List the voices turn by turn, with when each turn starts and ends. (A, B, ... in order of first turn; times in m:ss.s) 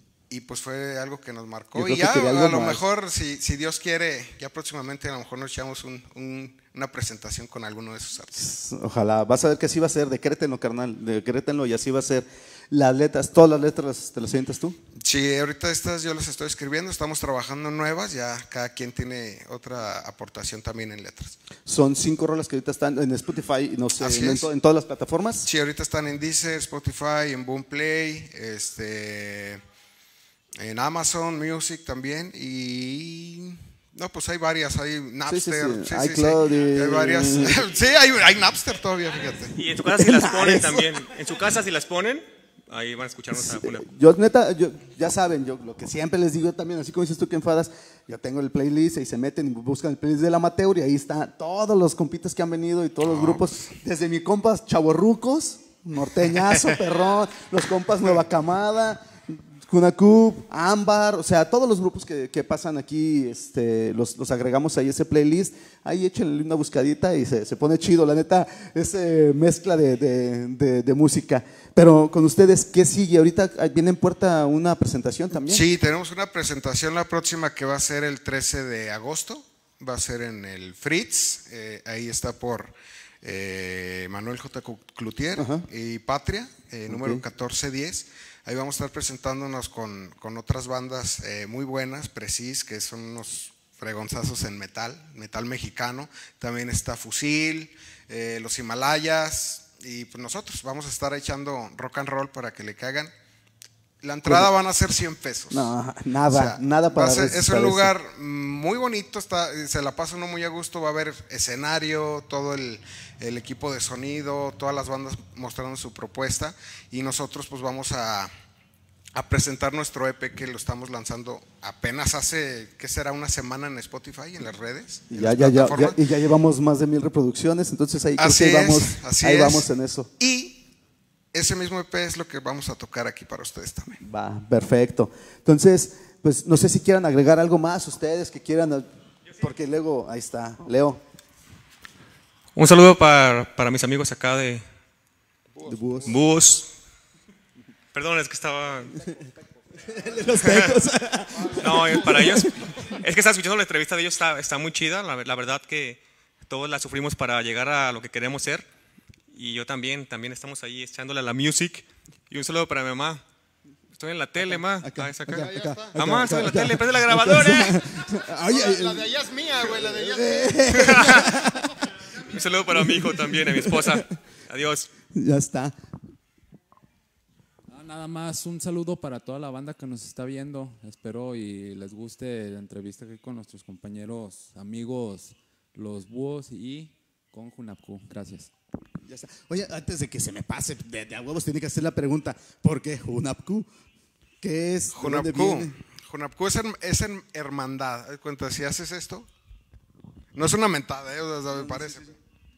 0:00.3-0:08.5 A
0:01.7-0:02.8 B
0:08.4-0:14.8 B
0:15.0-0:21.4 A
0:21.6-0:25.5 B
0:24.0-0:24.5 A
0:25.4-0:29.6 A
0:30.6-0:39.5 A
0:35.2-0:37.7 B
0:39.6-0:43.9 C
0:39.6-0:41.1 B
0:43.3-1:15.6 B
0:53.0-0:53.7 A
1:15.5-1:43.1 A
1:25.4-1:25.6 B
1:26.9-1:27.2 B
1:44.0-1:45.7 A
1:45.5-1:47.9 B
1:46.3-1:58.3 A
1:59.1-2:06.0 A
2:05.1-2:10.1 B
2:08.2-2:09.7 A
2:10.2-2:10.6 A
2:11.3-2:14.0 A
2:14.0-2:18.9 B
2:19.4-2:21.0 B
2:22.5-2:24.6 C
2:25.6-2:26.1 A
2:25.6-2:26.2 B
2:26.0-2:26.7 C
2:27.9-2:29.0 C
2:29.9-2:32.9 B
2:30.4-2:30.8 C
2:31.4-2:38.7 C
2:39.3-2:43.2 C
2:43.9-2:47.8 C
2:44.5-2:51.7 B
2:45.5-2:45.9 A
2:48.6-2:50.7 A
2:52.2-2:54.9 C
2:52.6-2:54.0 B
2:55.1-2:55.8 B
2:57.7-3:08.5 D
3:09.0-3:13.7 B
3:14.4-3:15.7 B
3:14.9-3:19.3 A
3:20.3-3:22.0 A
3:21.5-3:22.1 B